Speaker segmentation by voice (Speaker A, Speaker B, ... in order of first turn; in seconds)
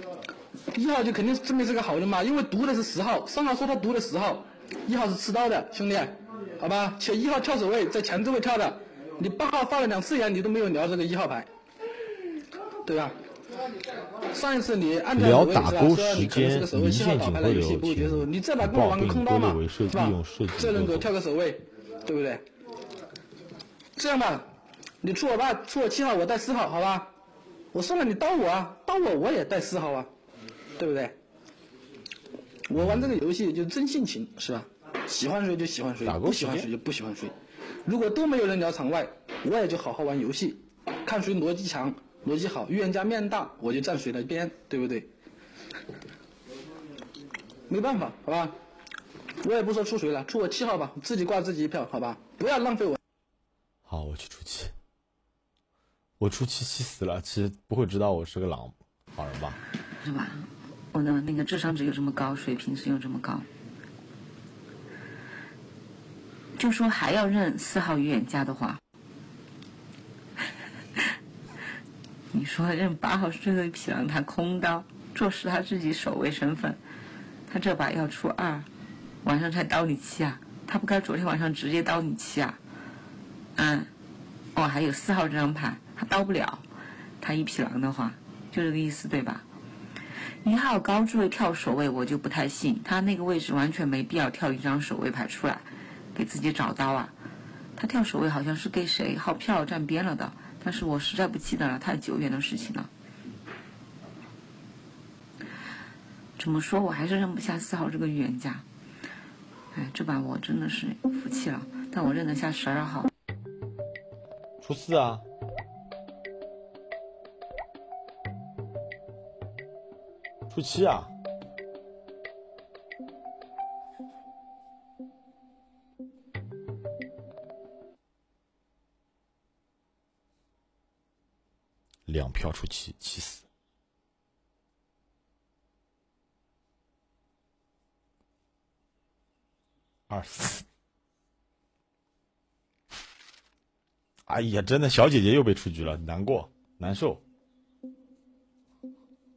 Speaker A: 0.7-11.5, 12.8-13.2, 14.3-22.4, 23.9-24.5, 25.0-27.1, 27.7-30.1, 30.8-31.1, 32.7-37.3, 37.8-45.1, 47.7-48.5, 49.4-53.0
Speaker B: 15.1-21.1, 36.0-36.7, 53.9-54.7, 56.2-59.6, 114.6-115.2, 120.5-121.1, 132.1-133.4, 140.1-140.6, 144.3-147.2
Speaker C: 60.0-63.5, 66.6-68.8, 72.3-76.8, 77.5-78.7, 79.2-82.6, 83.5-83.9, 84.5-86.6, 87.2-89.5, 90.4-97.2, 97.8-102.9, 106.4-108.6, 109.7-113.1